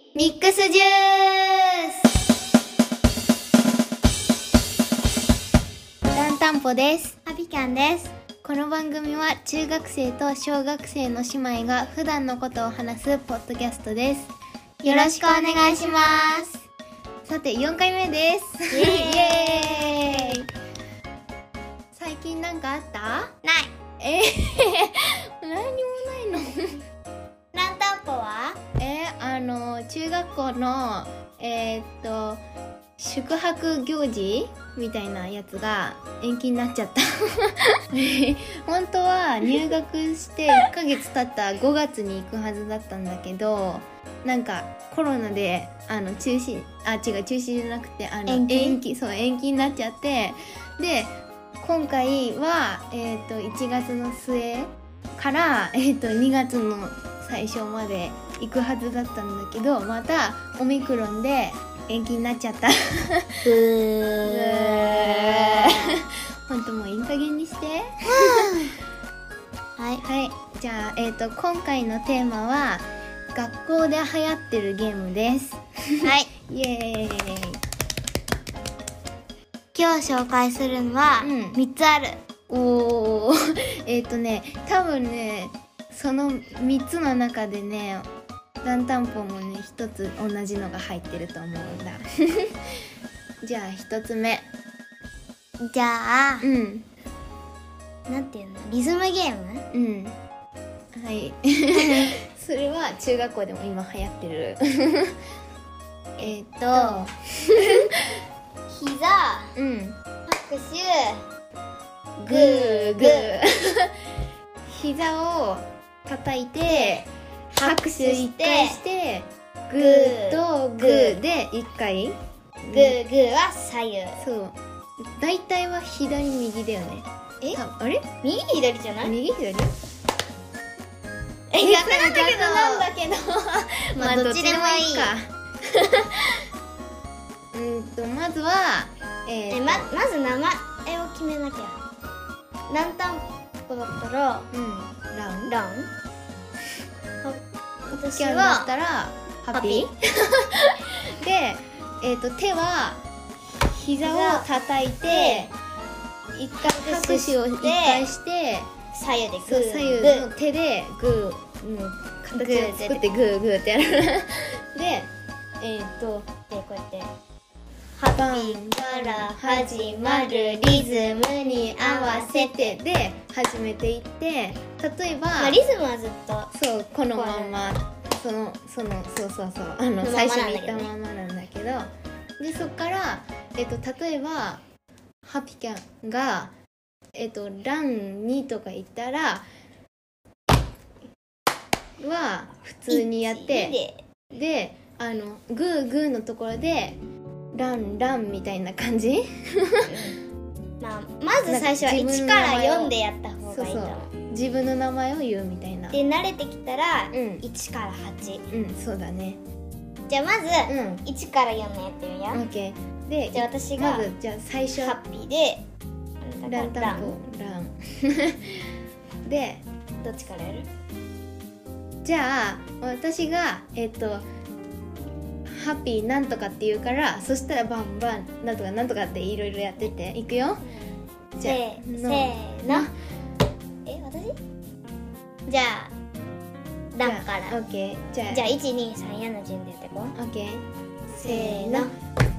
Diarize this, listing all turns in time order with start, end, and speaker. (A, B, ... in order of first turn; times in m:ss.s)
0:00.2-0:02.1 A
0:06.1-0:07.2 B
0:07.2-0:08.1 A
0:08.4-0:16.5 B
0:14.8-0:16.6 A
0:17.2-0:20.4 B
0:18.7-0:20.4 A
0:21.9-0:23.3 B
0:23.4-0:23.8 A
0:24.0-0:26.8 B
0:27.5-0:28.6 A
0:28.8-0:32.4 B
0:33.0-1:03.4 B
0:48.3-0:48.8 A
1:03.4-1:06.0 A
1:04.2-1:08.5 B
1:08.0-1:08.8 A
1:09.8-1:10.0 A
1:10.0-1:17.6 B
1:16.0-1:16.3 A
1:19.7-1:22.2 A
1:21.2-1:21.6 B
1:22.5-1:28.1 B
1:28.6-1:32.5 B
1:33.4-1:34.5 B
1:35.6-1:36.5 A
1:36.4-1:36.9 B
1:38.1-1:39.7 A
1:39.7-1:40.2 B
1:40.9-1:45.1 B
1:41.7-1:42.1 A
1:46.2-1:47.9 A
1:46.2-1:48.1 B
1:48.7-1:49.6 A
1:49.6-1:50.0 B
1:50.3-1:51.2 A
1:52.2-1:53.9 B
1:52.3-1:53.4 A
1:54.7-1:57.1 B
1:56.6-1:58.8 A
1:57.6-2:03.0 B
1:59.8-2:01.2 A
2:02.7-2:04.2 A
2:04.2-2:08.1 B
2:08.2-2:09.1 A
2:09.0-2:09.7 B
2:11.5-2:12.9 A
2:11.6-2:16.4 B
2:14.0-2:15.1 A
2:17.5-2:19.9 B
2:19.5-2:21.8 A
2:22.7-2:24.5 A
2:24.5-2:25.5 B
2:25.5-2:25.9 A
2:27.2-2:28.7 A
2:27.9-2:33.0 B
2:29.5-2:29.9 A
2:33.6-2:35.5 B
2:34.0-2:34.5 A
2:35.0-2:35.5 A
2:36.4-2:38.7 B
2:36.7-2:38.1 A
2:38.9-2:40.3 A
2:39.4-2:45.1 B
2:42.3-2:43.1 A
2:45.6-2:46.3 B
2:46.5-2:47.1 A
2:48.0-2:52.8 A
2:48.1-2:55.6 B
2:55.4-2:56.5 A
2:56.5-3:04.6 B
2:57.1-2:57.6 A
3:00.0-3:00.9 A
3:05.2-3:06.5 B
3:07.2-3:09.5 B
3:12.0-3:13.8 B
3:12.9-3:14.0 A
3:14.3-3:17.0 B
3:17.5-3:19.9 B
3:19.9-3:20.2 A
3:20.8-3:24.1 A
3:21.5-3:22.9 B
3:23.5-3:26.0 B
3:25.9-3:28.4 A
3:27.1-3:27.4 B
3:28.5-3:29.4 B
3:30.1-3:32.4 A
3:30.7-3:31.0 B
3:32.3-3:35.0 B
3:33.3-3:34.1 A
3:34.8-3:35.6 A
3:36.2-3:37.2 A
3:36.5-3:38.7 B
3:39.2-3:39.6 B
3:40.0-3:40.7 A
3:42.0-3:44.2 B
3:45.5-3:50.6 B
3:50.6-3:52.9 A
3:51.4-3:52.9 B
3:53.8-3:54.4 A
3:55.5-3:55.9 A
3:56.9-3:57.6 A
3:57.0-3:58.6 B
3:58.3-4:00.1 A
4:00.2-4:00.6 B
4:01.2-4:01.9 A
4:01.2-4:01.9 B